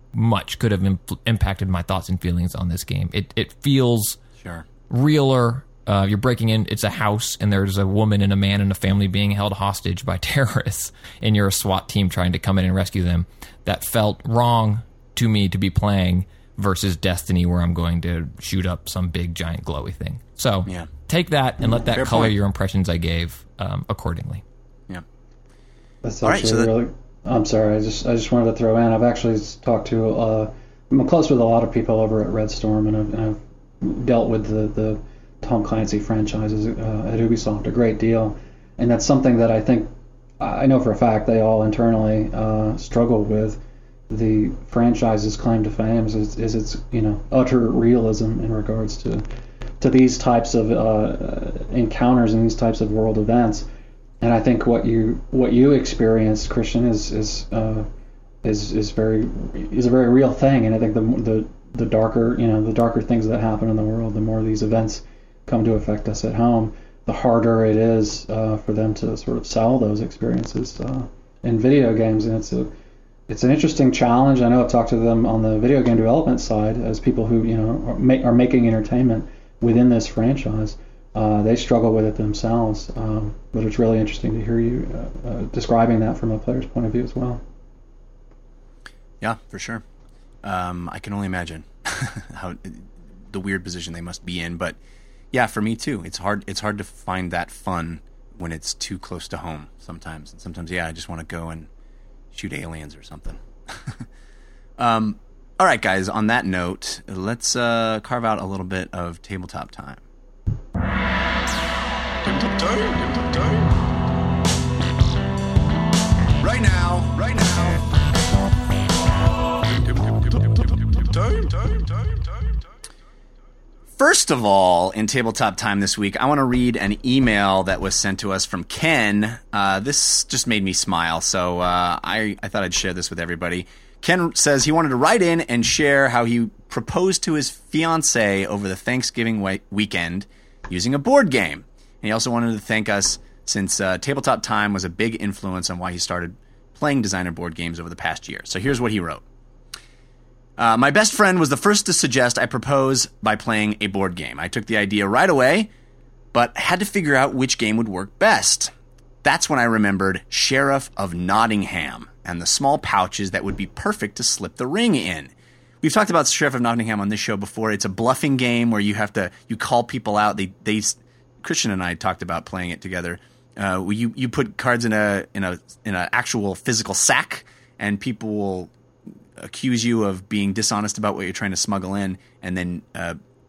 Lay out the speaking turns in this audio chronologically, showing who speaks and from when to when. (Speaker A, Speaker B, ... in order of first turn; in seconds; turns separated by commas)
Speaker A: 0.1-4.2, Speaker B: 4.4-4.7, Speaker A: 4.9-24.4, Speaker B: 21.9-22.3, Speaker C: 26.0-39.9, Speaker B: 26.2-26.7, Speaker C: 40.4-49.2, Speaker C: 49.8-53.7, Speaker C: 54.2-57.9, Speaker C: 58.4-72.7, Speaker C: 73.3-87.4, Speaker B: 89.2-89.8, Speaker B: 90.4-94.8, Speaker B: 95.3-101.7, Speaker B: 102.3-104.0, Speaker B: 104.8-110.0, Speaker B: 112.2-113.7, Speaker B: 116.4-117.9, Speaker B: 120.1-122.3, Speaker B: 124.0-149.2, Speaker B: 150.6-155.7, Speaker B: 156.3-158.7, Speaker B: 159.2-178.7, Speaker B: 179.4-183.2